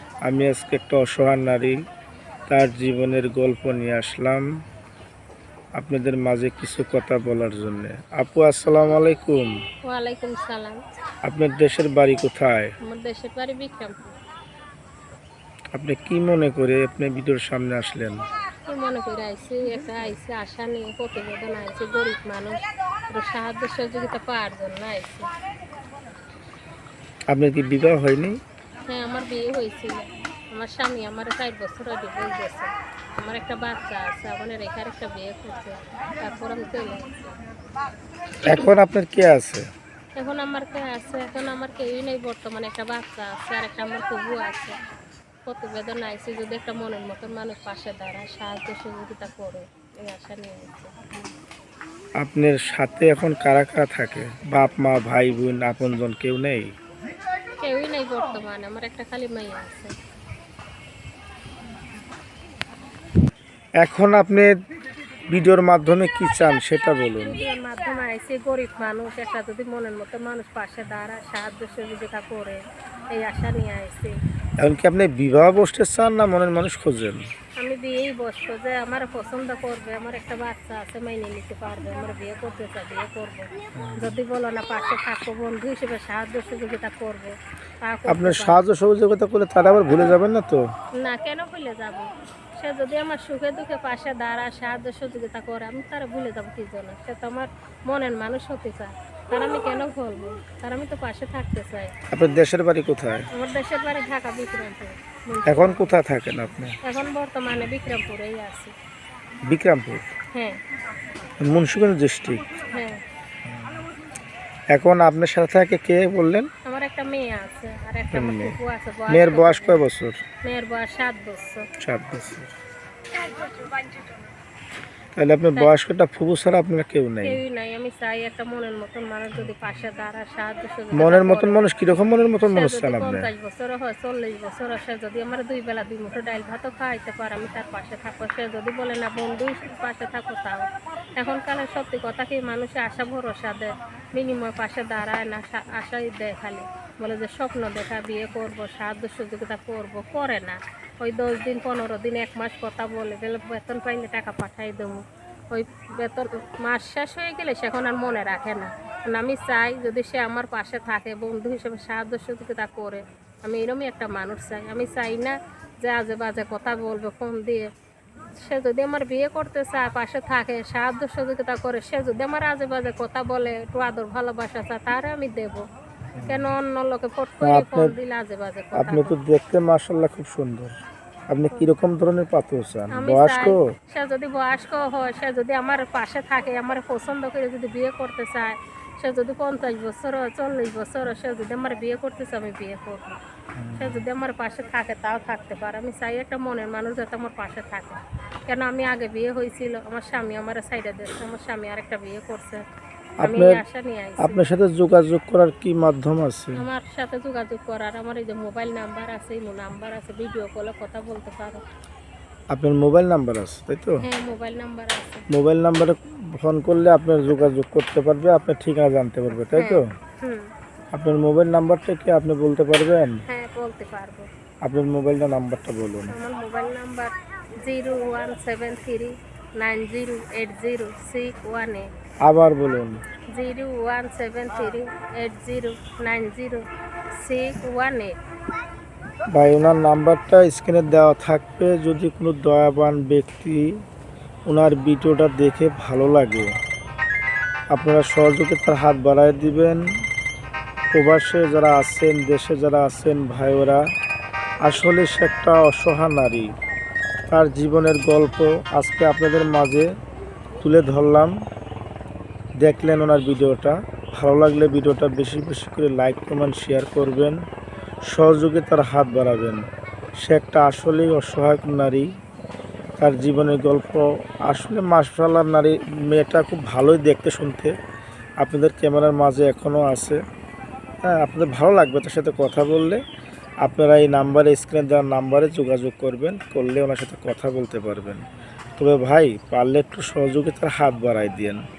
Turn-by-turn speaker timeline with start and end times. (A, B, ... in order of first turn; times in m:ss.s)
0:00.2-0:01.8 A
0:02.5-0:04.4 A
0:05.8-0:09.5 A
0:09.8-0:10.8 B
0:11.2-0:12.7 A
0:12.8-0:14.1 B
0:15.7-0:18.2 A
0:18.6-0:25.3 B
0:27.3-0:28.4 A
0:28.9-0:37.3 B
0:38.4-0:39.6 A
0:40.2-0:44.7 B
0:45.4-0:50.9 B
0:52.2-0:56.7 A
0:57.6-0:59.9 B
1:03.8-1:04.5 A
1:05.3-1:07.4 A
1:07.2-1:12.6 B
1:13.1-1:14.1 B
1:14.6-1:17.2 A
1:17.6-1:28.6 B
1:23.8-1:24.2 A
1:28.1-1:30.6 A
1:31.0-1:41.9 B
1:42.1-1:43.3 A
1:43.3-1:46.0 B
1:45.5-1:46.8 A
1:46.8-1:48.7 B
1:49.5-1:50.0 A
1:50.3-1:50.6 B
1:51.4-1:52.6 A
1:52.7-1:53.0 B
1:53.5-1:53.8 A
1:54.7-1:56.5 A
1:56.6-1:59.8 B
1:58.1-1:58.6 A
1:59.1-2:00.2 A
2:00.4-2:01.6 B
2:01.8-2:02.5 A
2:05.2-2:07.4 A
2:07.2-2:11.6 B
2:09.3-2:09.8 A
2:10.9-2:13.3 A
2:12.5-2:20.6 B
2:21.2-2:47.7 B
2:48.4-2:55.6 B
2:56.1-2:56.5 A
2:56.3-2:59.2 B
2:57.4-2:57.9 A
2:58.7-3:00.7 A
3:01.3-3:03.6 A
3:02.9-3:13.2 B
3:13.6-3:14.0 A
3:13.8-3:22.6 B
3:23.2-3:24.4 B
3:23.2-3:23.6 A
3:24.2-3:26.6 A
3:26.5-3:31.6 B
3:32.5-3:34.0 A
3:34.0-3:35.2 B
3:35.3-3:39.8 A
3:39.6-3:40.5 B
3:40.9-3:43.2 A
3:43.3-3:44.3 B
3:44.6-3:46.1 A
3:46.1-3:47.1 B
3:47.6-3:51.8 B
3:52.2-3:53.0 A
3:53.3-3:56.6 B
3:57.2-3:58.1 B
3:59.3-4:03.6 A
4:04.5-4:06.5 A
4:07.7-4:09.8 A
4:10.9-4:13.8 A
4:14.6-4:16.5 A
4:17.3-4:19.9 A
4:20.6-4:21.3 A
4:22.6-4:27.4 A
4:28.1-4:29.6 A
4:30.2-4:32.1 A
4:33.0-4:37.7 A
4:38.4-4:40.2 A
4:41.0-4:43.0 A
4:43.6-4:48.2 A
4:48.8-4:51.6 A